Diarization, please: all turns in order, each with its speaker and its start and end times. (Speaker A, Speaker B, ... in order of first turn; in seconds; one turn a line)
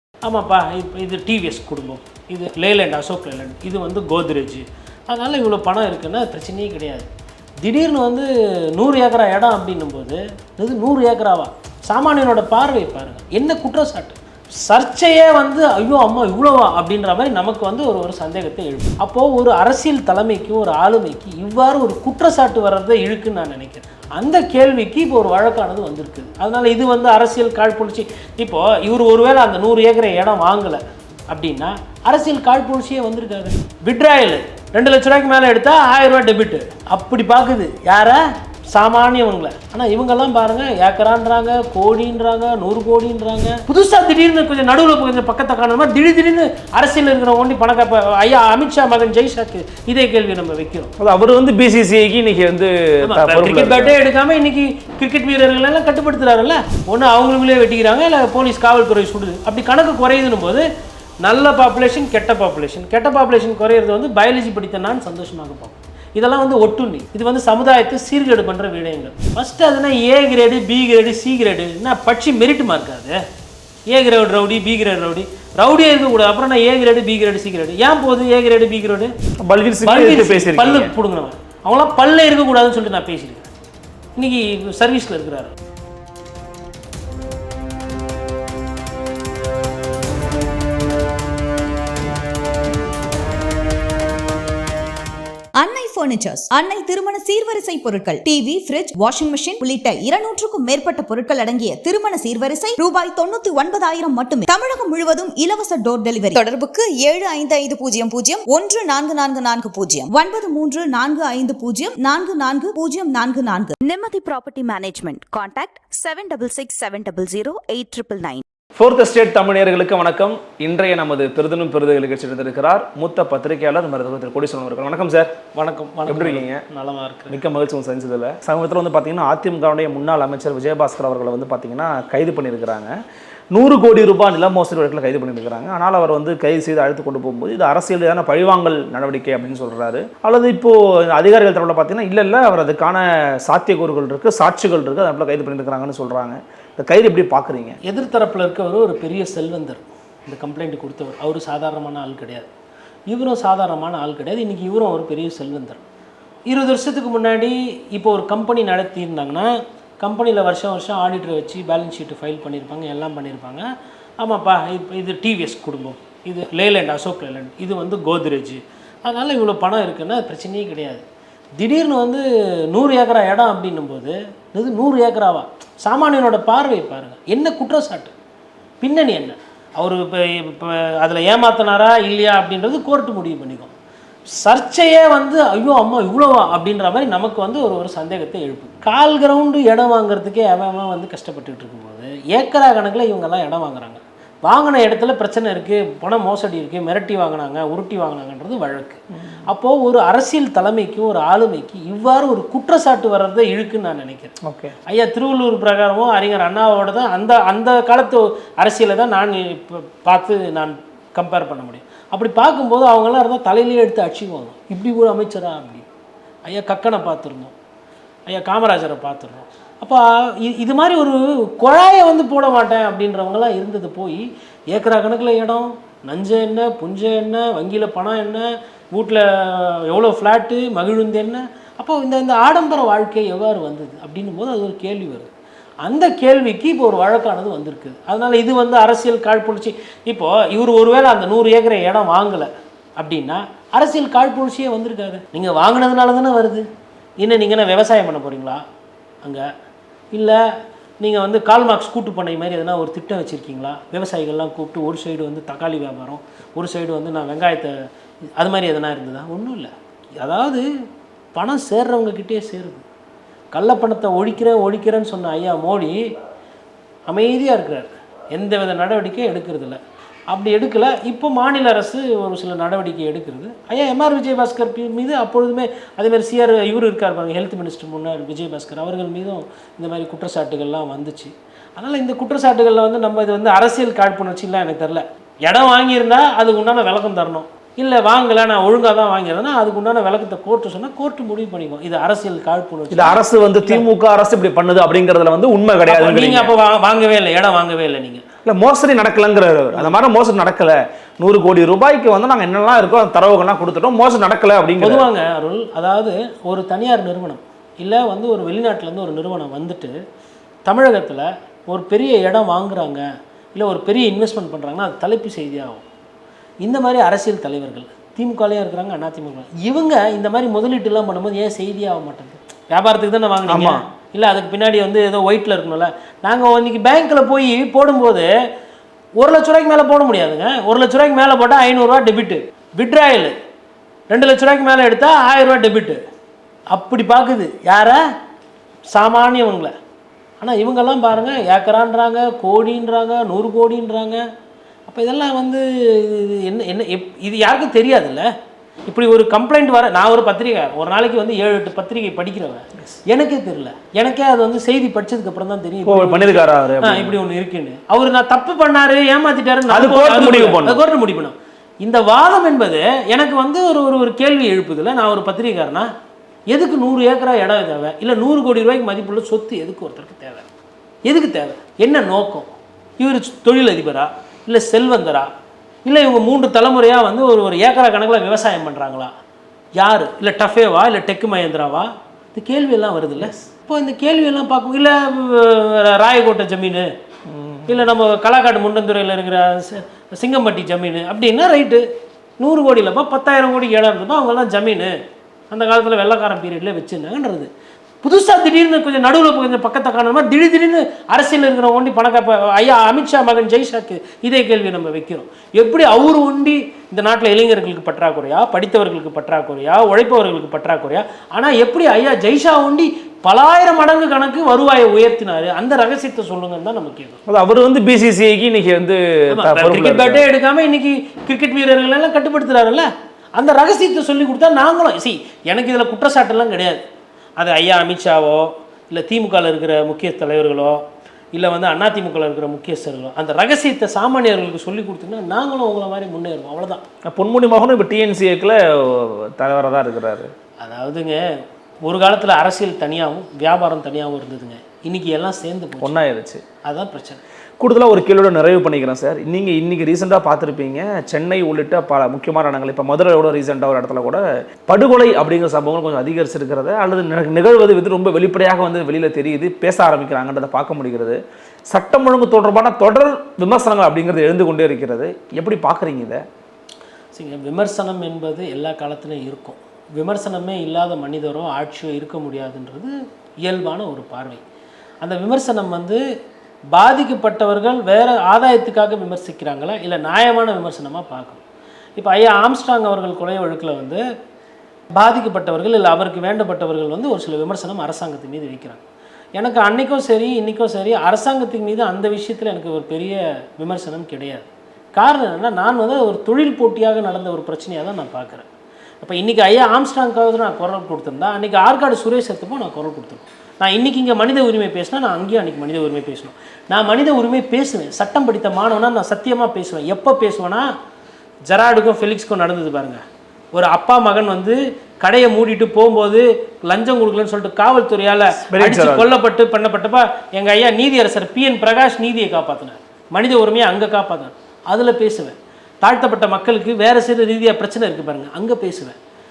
Speaker A: 0.2-7.1
Speaker A: 7.6-38.2
Speaker A: 38.7-50.9
Speaker B: 51.0-54.0
Speaker A: 53.0-60.7
Speaker A: 61.2-73.2
Speaker A: 73.9-79.1
Speaker B: 79.4-80.9
Speaker A: 79.8-83.5
Speaker A: 84.2-85.5
Speaker C: 95.6-113.7
Speaker D: 113.8-118.4
Speaker B: 118.8-125.3
Speaker A: 125.6-127.4
Speaker B: 126.1-126.6
Speaker B: 127.3-132.9
Speaker B: 133.5-147.8
Speaker A: 147.8-152.5
Speaker A: 153.1-155.8
Speaker A: 156.5-163.7
Speaker A: 164.2-171.0
Speaker A: 171.6-178.1
Speaker A: 178.8-183.7
Speaker A: 184.3-204.3
Speaker B: 204.4-204.8
Speaker A: 204.9-215.9
Speaker A: 216.4-217.5
Speaker A: 218.3-235.3
Speaker A: 235.8-246.7
Speaker A: 247.2-248.6
Speaker A: 250.1-250.4
Speaker A: 251.0-257.7
Speaker A: 258.4-260.6
Speaker A: 261.4-262.9
Speaker A: 263.5-266.0
Speaker A: 267.1-269.8
Speaker A: 270.3-293.9
Speaker B: 292.9-296.5
Speaker A: 295.9-298.2
Speaker B: 298.4-305.1
Speaker A: 304.8-309.9
Speaker A: 310.7-313.0
Speaker A: 313.6-315.9
Speaker A: 316.6-328.3
Speaker B: 323.5-323.8
Speaker A: 329.2-333.4
Speaker A: 334.1-336.0
Speaker A: 336.7-338.0
Speaker A: 338.9-339.7
Speaker A: 340.4-344.2
Speaker A: 344.9-348.3
Speaker A: 348.9-365.9
Speaker B: 355.9-357.2
Speaker B: 359.7-360.8
Speaker A: 366.5-370.5
Speaker A: 371.1-375.3
Speaker A: 375.9-379.1
Speaker A: 379.8-386.9
Speaker B: 387.3-387.9
Speaker A: 387.7-391.8
Speaker A: 392.4-394.9
Speaker A: 395.5-397.5
Speaker A: 398.0-417.2
Speaker B: 417.3-420.2
Speaker A: 419.3-426.8
Speaker A: 427.4-430.8
Speaker A: 431.3-436.8
Speaker B: 437.1-440.3
Speaker A: 440.6-441.2
Speaker A: 441.9-446.0
Speaker B: 445.8-446.4
Speaker A: 446.6-447.2
Speaker B: 447.6-466.2
Speaker A: 467.1-472.9
Speaker A: 473.4-474.4
Speaker A: 475.0-476.0
Speaker A: 476.8-481.4
Speaker A: 482.0-484.0
Speaker A: 484.9-488.8
Speaker A: 489.4-498.5
Speaker A: 499.0-510.6
Speaker A: 511.5-513.0
Speaker A: 513.5-529.0
Speaker B: 518.5-519.1